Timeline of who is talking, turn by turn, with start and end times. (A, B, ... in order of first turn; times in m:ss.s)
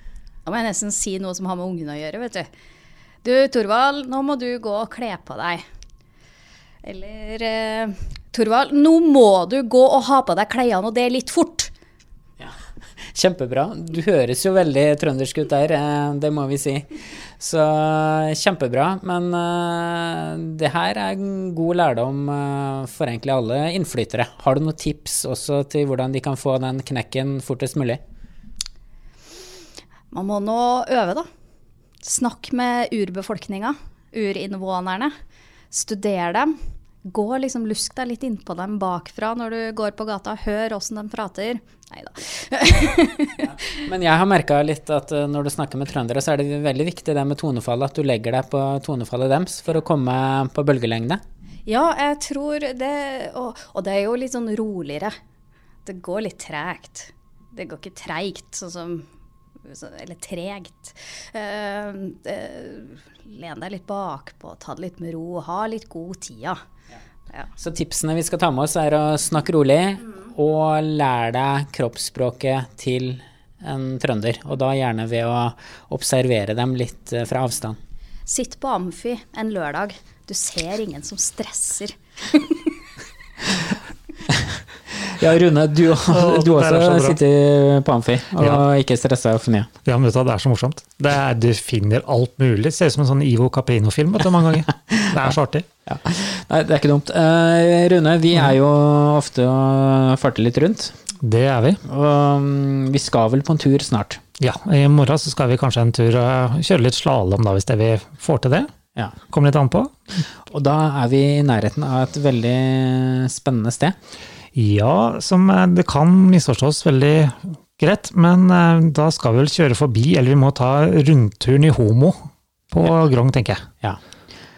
0:00.4-0:02.5 A
0:03.2-0:05.6 A
0:06.8-0:11.7 A
0:12.4-0:28.0 B
0:30.1-0:31.2 A
0:32.0-0:35.1 A
0:35.7-0:36.5 A
0:37.0-0:43.5 A
0:43.7-0:51.2 B
0:51.6-0:55.1 A
0:55.8-0:59.0 A
0:59.6-1:06.6 A
1:07.6-1:17.8 B
1:18.3-1:22.6 A
1:24.3-1:29.7 B
1:26.0-1:27.2 C
1:28.4-1:28.6 C
1:29.8-1:35.6 C
1:34.9-1:35.3 B
1:35.8-1:40.9 B
1:41.2-1:41.8 C
1:41.9-1:44.2 B
1:44.4-1:48.7 C
1:49.3-1:49.9 C
1:50.5-1:53.9 B
1:54.5-2:02.2 C
2:02.7-2:03.6 C